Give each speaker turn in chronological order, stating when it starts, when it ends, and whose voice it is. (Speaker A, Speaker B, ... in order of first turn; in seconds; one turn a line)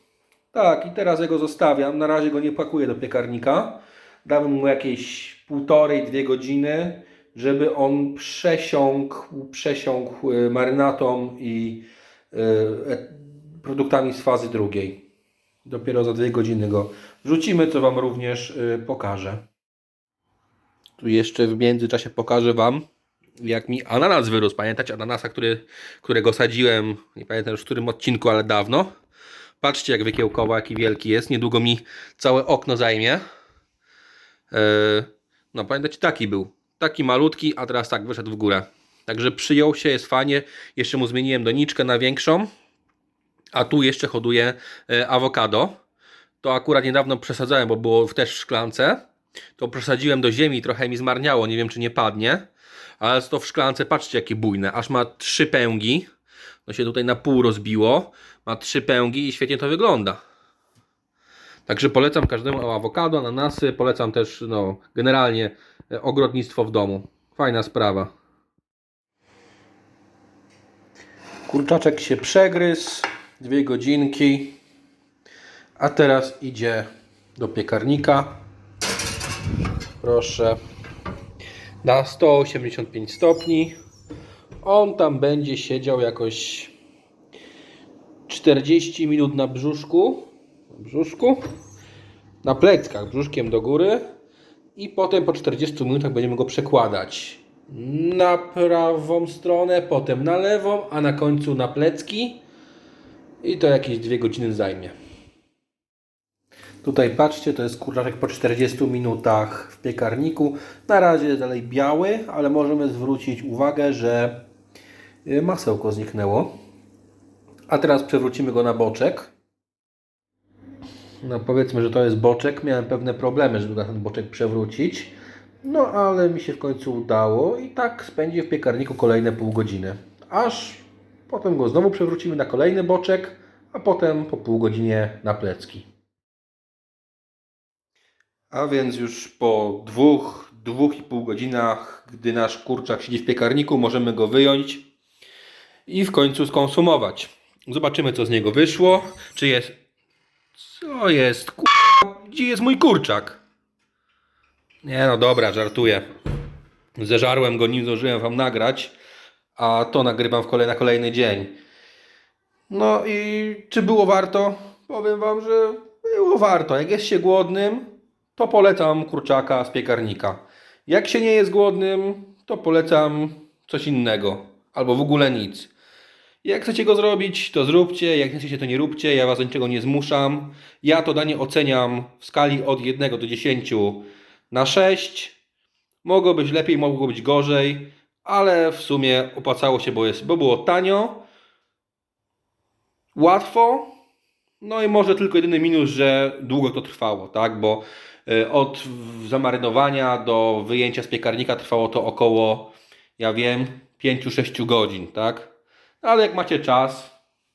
Speaker A: 0.5-15.1
Speaker A: 15.6-19.4
Speaker A: 21.0-22.8
Speaker A: 23.4-28.9
Speaker A: 29.6-33.2
Speaker A: 34.5-42.5
Speaker A: 43.5-45.7
Speaker A: 46.4-49.0
Speaker A: 49.6-52.5
Speaker A: 53.0-56.1
Speaker A: 56.6-60.2
Speaker A: 61.6-68.1
Speaker A: 71.5-74.6
Speaker A: 75.8-78.4
Speaker A: 80.0-80.6
Speaker A: 81.8-83.8
Speaker A: 84.6-86.7
Speaker A: 88.3-91.4
Speaker A: 92.4-94.1
Speaker A: 94.7-102.4
Speaker A: 103.4-104.9
Speaker A: 106.8-114.4
Speaker A: 115.2-116.5
Speaker A: 117.7-119.3
Speaker A: 121.2-135.9
Speaker A: 138.5-144.9
Speaker A: 145.8-149.8
Speaker A: 150.6-153.4
Speaker A: 154.8-156.0
Speaker A: 156.9-158.9
Speaker A: 159.6-161.6
Speaker A: 162.7-175.7
Speaker A: 176.4-185.4
Speaker A: 186.0-191.2
Speaker A: 193.1-193.9
Speaker A: 194.6-207.1